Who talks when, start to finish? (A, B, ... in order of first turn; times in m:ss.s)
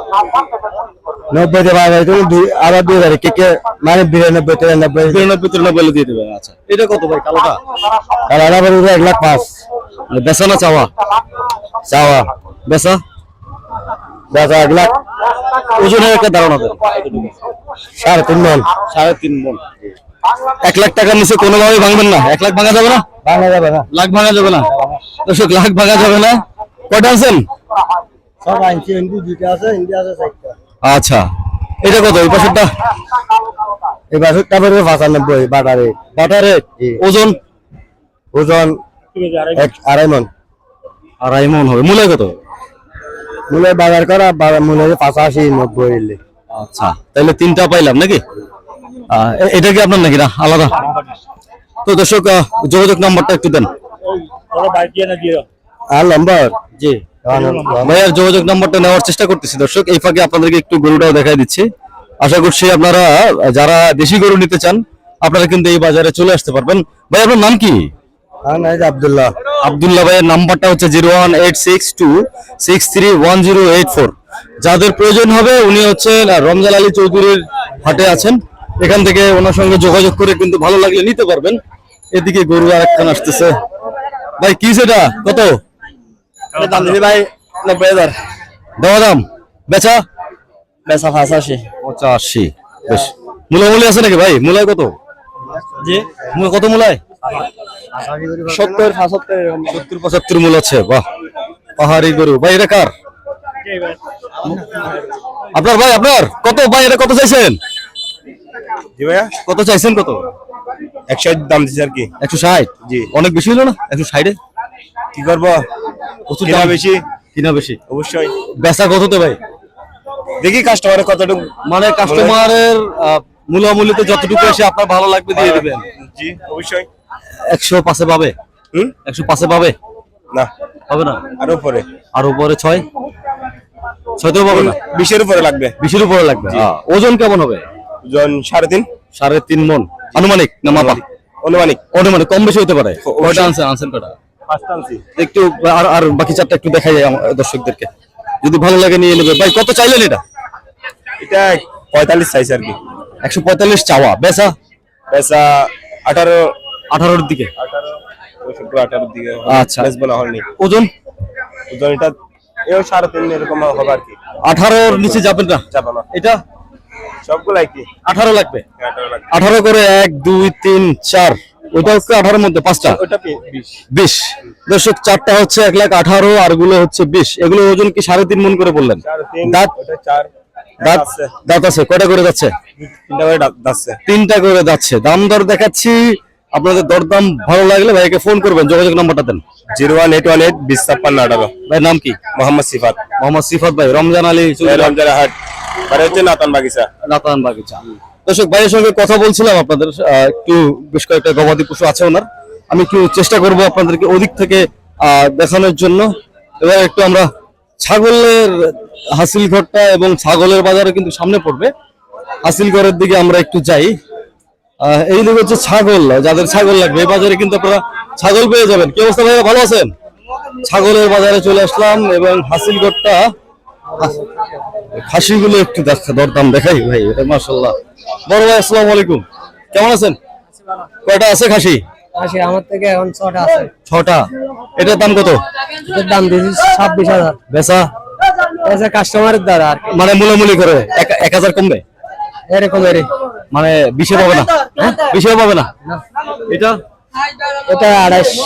0:01.3-0:05.2 A
0:05.0-0:07.6 B
0:08.3-0:09.6 A
0:10.1-0:10.9 B
0:11.9-0:13.0 B
0:14.3-0:15.0 A
0:15.7-0:17.3 B
0:17.9-0:18.7 A
0:18.8-0:19.7 B
0:20.6-0:23.0 B
0:23.2-0:23.9 A
0:23.9-0:24.7 B
0:25.2-0:27.4 B
0:28.4-0:30.5 A
0:30.8-0:31.2 B
0:31.8-0:32.7 B
0:34.1-0:36.0 A
0:36.1-0:37.4 B
0:38.3-0:38.8 A
0:39.5-0:40.3 A
0:41.2-0:42.3 B
0:43.5-0:46.2 A
0:46.5-0:48.2 B
0:49.1-0:50.8 B
0:51.8-0:53.7 B
0:55.9-0:57.9 A
0:57.7-1:01.7 B
1:02.2-1:07.9 B
1:08.4-1:09.4 A
1:09.6-1:21.6 B
1:22.1-1:23.6 B
1:24.4-1:25.6 B
1:26.6-1:28.1 A
1:28.8-1:30.0 B
1:30.8-1:31.7 A
1:31.8-1:34.9 B
1:35.7-1:36.1 A
1:36.3-1:37.0 B
1:37.9-1:39.7 A
1:39.7-1:41.0 B
1:41.8-1:42.9 B
1:45.5-1:47.6 B
1:49.0-1:49.3 C
1:49.4-1:50.3 B
1:51.1-1:52.1 C
1:52.2-1:54.4 B
1:55.1-1:55.6 C
1:56.3-1:57.8 B
1:56.4-1:57.0 C
1:57.9-1:58.3 C
1:58.6-1:59.4 B
2:00.4-2:01.5 C
2:01.6-2:05.8 B
2:02.0-2:02.4 C
2:05.3-2:06.9 C
2:07.4-2:08.3 B
2:09.0-2:09.7 B
2:10.9-2:11.3 B
2:11.4-2:11.9 C
2:12.1-2:12.8 B
2:14.2-2:14.8 B
2:14.5-2:15.7 C
2:15.8-2:17.6 B
2:18.0-2:18.9 C
2:19.1-2:21.0 B
2:20.6-2:21.8 C
2:21.9-2:24.1 B
2:23.0-2:23.5 C
2:24.5-2:25.0 C
2:25.2-2:27.9 B
2:28.4-2:30.2 B
2:31.2-2:32.8 C
2:33.2-2:34.5 B
2:35.1-2:36.5 C
2:36.9-2:37.5 B
2:37.6-2:40.4 C
2:39.5-2:39.9 B
2:40.6-2:40.9 B
2:41.7-2:42.1 C
2:42.7-2:44.2 C
2:44.4-2:46.4 B
2:44.9-2:46.0 C
2:47.2-2:47.9 C
2:48.0-2:48.6 B
2:48.8-2:49.3 C
2:49.3-2:53.0 B
2:52.8-2:53.8 C
2:53.9-2:59.7 B
2:59.0-3:00.3 C
3:00.8-3:01.3 C
3:00.8-3:02.5 B
3:02.8-3:04.0 C
3:04.0-3:09.4 B
3:09.7-3:11.5 C
3:11.7-3:12.2 B
3:12.4-3:13.0 C
3:13.2-3:15.0 B
3:14.6-3:15.3 C
3:15.9-3:16.9 C
3:17.0-3:26.1 B
3:26.6-3:27.3 B
3:27.8-3:31.7 B
3:32.4-3:33.9 B
3:34.8-3:39.9 B
3:40.6-3:43.3 B
3:45.0-3:47.7 B
3:48.3-3:50.2 B
3:51.0-3:51.8 B
3:53.9-3:55.4 B
3:55.9-3:57.2 D
3:57.5-3:57.9 B
3:58.7-3:59.8 D
3:59.9-4:01.8 B
4:02.5-4:03.0 D
4:03.5-4:05.7 B
4:06.5-4:06.8 B